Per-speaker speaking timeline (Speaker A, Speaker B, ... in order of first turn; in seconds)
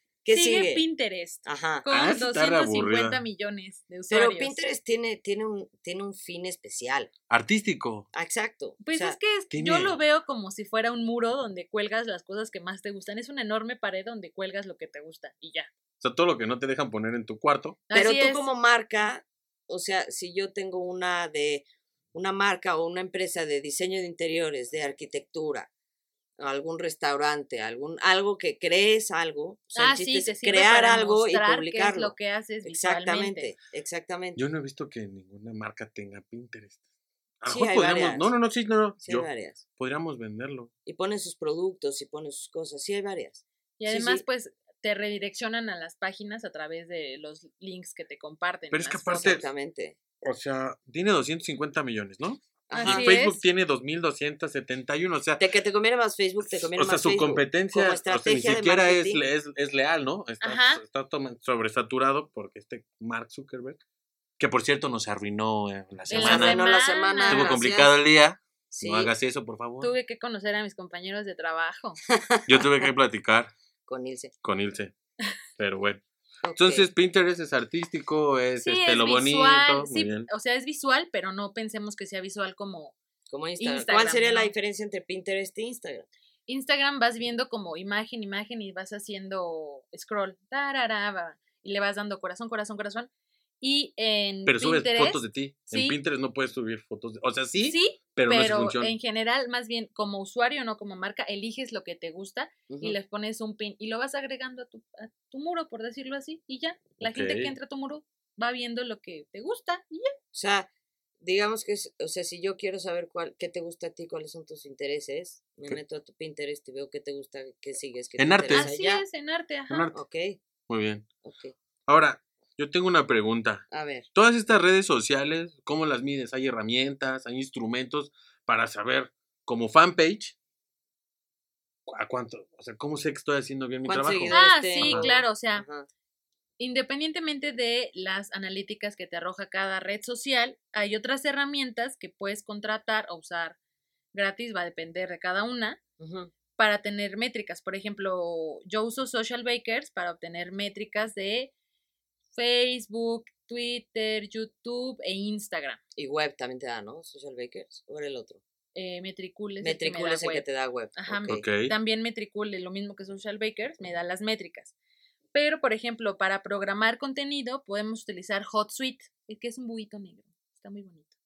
Speaker A: 0.2-0.8, 1.4-1.9, 4.1-7.1, 8.1-9.2, 17.9-25.7, 26.4-34.4, 37.5-38.3, 39.0-39.6, 40.9-44.2, 49.1-50.0, 52.7-53.1, 55.4-59.2, 66.1-67.9, 68.7-69.1, 72.1-72.9, 73.9-74.3, 76.4-76.8, 83.3-86.1, 102.7-103.0, 110.3-110.7, 111.2-119.0, 119.9-120.4, 121.2-121.5, 123.7-124.1, 133.8-135.9, 146.0-146.3, 155.9-158.4, 159.6-161.4
Speaker B: 0.3-4.6, 8.8-15.7, 17.9-18.4, 29.7-33.5, 43.8-49.4, 52.7-53.4, 60.4-60.8, 66.1-67.6, 69.8-72.0, 78.6-83.0, 83.6-84.5, 86.5-93.1, 93.6-96.0, 97.6-110.2, 118.5-119.9, 134.3-135.7, 136.6-143.6, 144.1-145.8, 146.6-151.5, 152.3-155.8, 158.7-164.7, 165.3-171.1
Speaker C: 1.9-3.2, 7.3-8.1, 9.5-10.0, 16.0-17.8, 34.4-36.8, 37.4-40.7, 48.7-49.5, 50.2-55.5, 56.4-63.8, 64.4-66.6, 67.3-69.9, 72.5-73.5, 74.4-74.9, 75.6-76.0, 76.5-80.3, 94.5-99.0, 107.0-107.5, 118.2-118.7, 119.7-120.0, 120.7-121.1, 121.9-130.3, 131.9-135.1, 161.3-161.7